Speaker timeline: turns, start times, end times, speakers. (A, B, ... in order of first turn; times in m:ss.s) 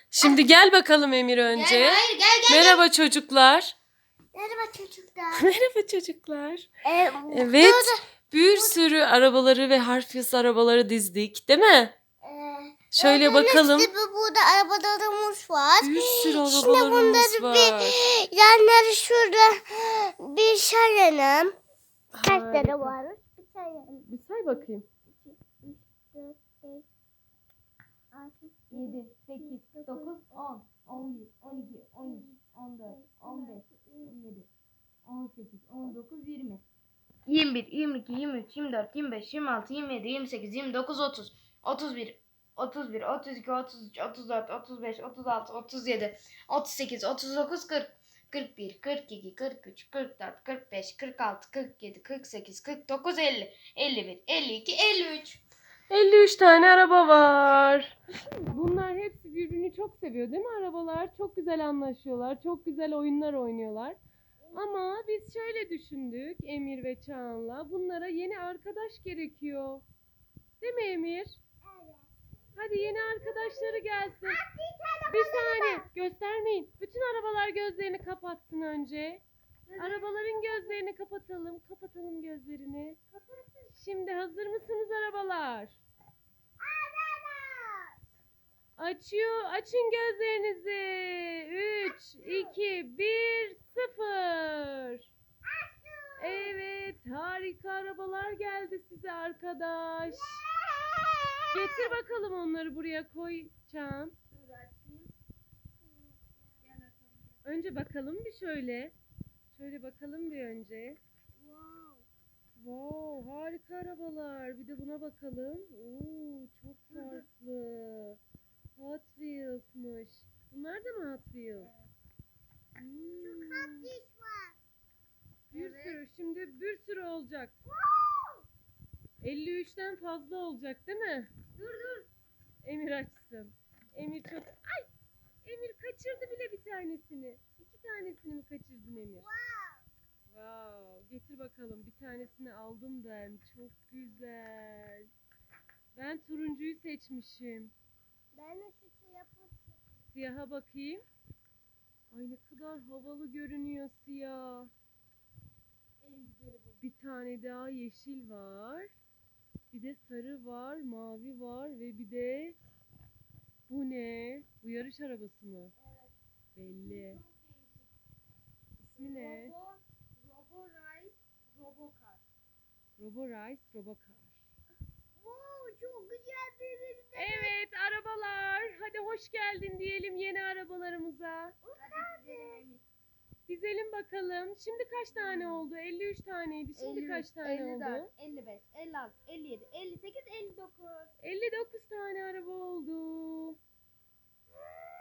0:00.1-0:03.8 A
0:01.5-0:02.8 B
0:04.3-0:05.5 C
0:05.3-0:06.7 A
0:06.8-0:08.8 C
0:07.3-0:11.9 A
0:12.2-0:21.5 C
0:12.9-0:13.9 A
0:15.8-0:18.0 A
0:22.1-0:23.0 A
0:22.2-0:24.1 C
0:24.0-0:24.8 A
0:24.6-0:26.8 C
0:28.1-0:30.2 C
0:28.7-0:34.5 B
0:32.0-0:34.1 C
0:35.0-0:36.6 B
0:37.2-0:55.4 B
0:55.9-0:58.0 A
0:58.2-0:58.6 C
0:58.5-1:04.0 A
1:04.5-1:09.8 A
1:10.6-1:11.4 A
1:11.6-1:15.9 C
1:12.5-1:14.4 A
1:15.1-1:19.2 A
1:19.7-1:20.4 B
1:19.8-1:23.0 A
1:23.1-1:23.7 B
1:23.7-1:25.8 A
1:26.6-1:28.0 C
1:28.8-1:35.0 A
1:32.2-1:32.6 C
1:35.4-1:36.5 C
1:36.2-1:40.5 A
1:40.1-1:41.9 C
1:41.5-1:44.1 A
1:44.3-1:45.1 B
1:45.8-1:46.7 C
1:46.6-1:47.5 B
1:47.4-1:48.9 A
1:49.5-1:51.0 A
1:51.4-1:52.0 C
1:52.6-1:58.2 A
1:56.9-1:57.2 B
1:58.8-2:01.7 A
2:01.6-2:01.9 B
2:02.8-2:03.9 A
2:03.2-2:04.6 C
2:05.5-2:07.5 A
2:05.5-2:06.0 B
2:07.6-2:08.4 C
2:09.2-2:11.3 A
2:11.6-2:12.1 B
2:12.6-2:14.9 A
2:15.4-2:19.3 A
2:19.1-2:19.8 C
2:20.3-2:25.1 A
2:25.9-2:27.7 A
2:28.3-2:29.9 C
2:30.1-2:31.0 A
2:32.1-2:34.7 A
2:36.0-2:36.8 B
2:36.8-2:38.9 A
2:39.7-2:42.6 A
2:43.7-2:45.7 A
2:45.8-2:46.1 B
2:46.5-2:47.2 A
2:46.6-2:47.9 B
2:48.8-2:49.5 A
2:49.0-2:52.2 B
2:53.0-2:54.4 A
2:55.2-2:57.5 C
2:57.1-3:01.6 A
3:01.6-3:02.6 C
3:01.8-3:02.8 B
3:03.5-3:08.1 A
3:05.1-3:05.6 B
3:06.8-3:11.1 B
3:11.2-3:13.6 A